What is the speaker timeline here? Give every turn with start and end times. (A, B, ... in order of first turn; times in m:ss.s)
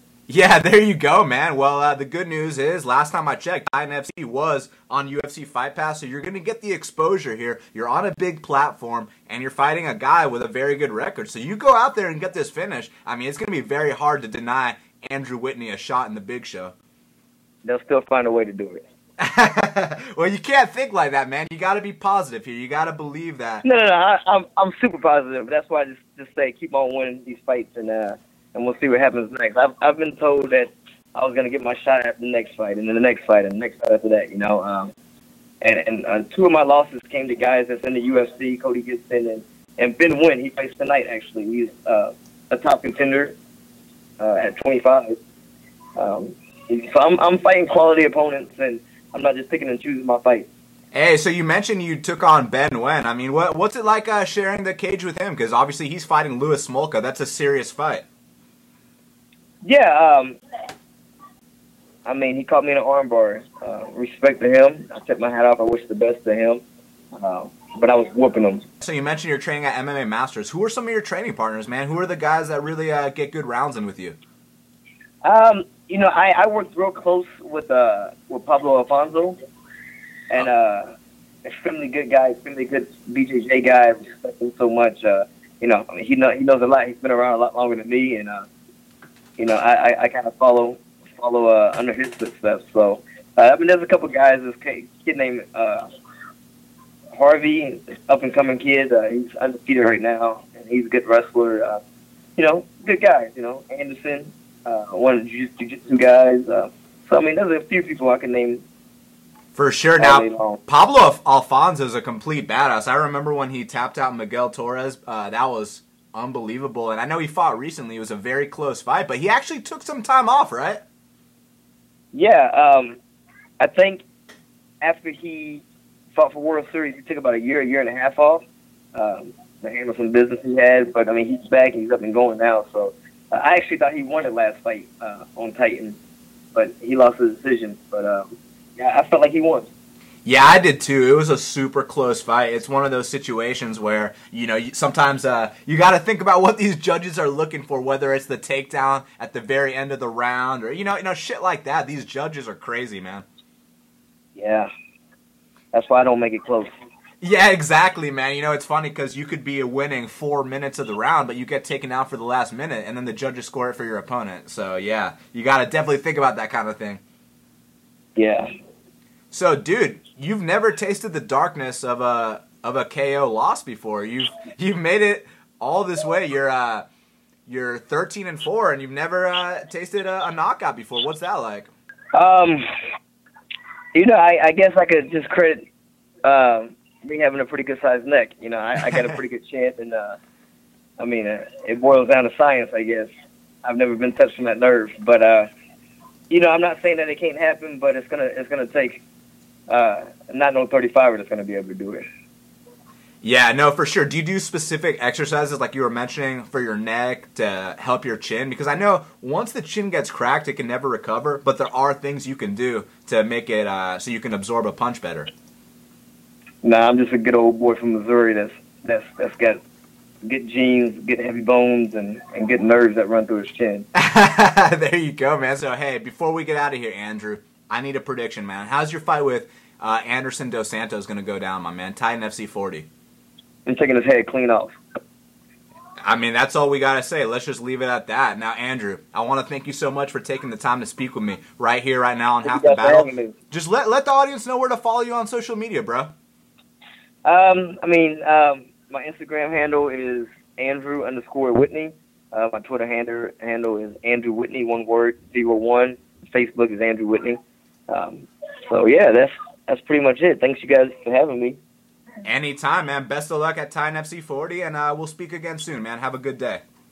0:00.3-0:16.7 A
0:17.6-0:18.8 B
0:19.2-0:23.6 A
0:23.6-0:34.9 B
0:35.6-0:43.4 B
0:44.2-0:45.2 B
0:46.0-0:50.5 B
0:50.9-0:58.0 A
0:59.6-1:00.4 B
1:02.0-1:06.6 B
1:07.1-1:08.6 B
1:08.8-1:14.2 A
1:15.2-1:19.4 B
1:20.3-1:28.4 B
1:29.4-1:35.9 B
1:37.1-1:41.8 B
1:42.4-1:48.6 B
1:49.5-2:00.8 A
1:50.0-1:50.6 B
2:02.1-2:03.0 B
2:03.6-2:04.0 B
2:04.8-2:16.0 B
2:16.5-2:19.7 B
2:20.2-2:33.2 A
2:34.4-2:34.7 B
2:35.7-2:36.7 B
2:37.2-2:47.0 A
2:48.2-2:48.5 B
2:49.3-2:56.8 A
2:57.5-3:01.7 A
3:02.1-3:02.6 B
3:03.9-3:05.6 B
3:06.2-3:10.2 B
3:11.0-3:13.1 B
3:13.6-3:15.5 B
3:16.3-3:19.0 B
3:19.7-3:22.0 B
3:23.2-3:35.3 A
3:36.6-3:39.6 B
3:40.2-3:43.8 B
3:43.9-3:52.9 A
3:53.6-3:54.8 B
3:56.0-4:06.1 A
4:02.4-4:03.3 B
4:07.2-4:21.6 B
4:22.2-4:26.6 A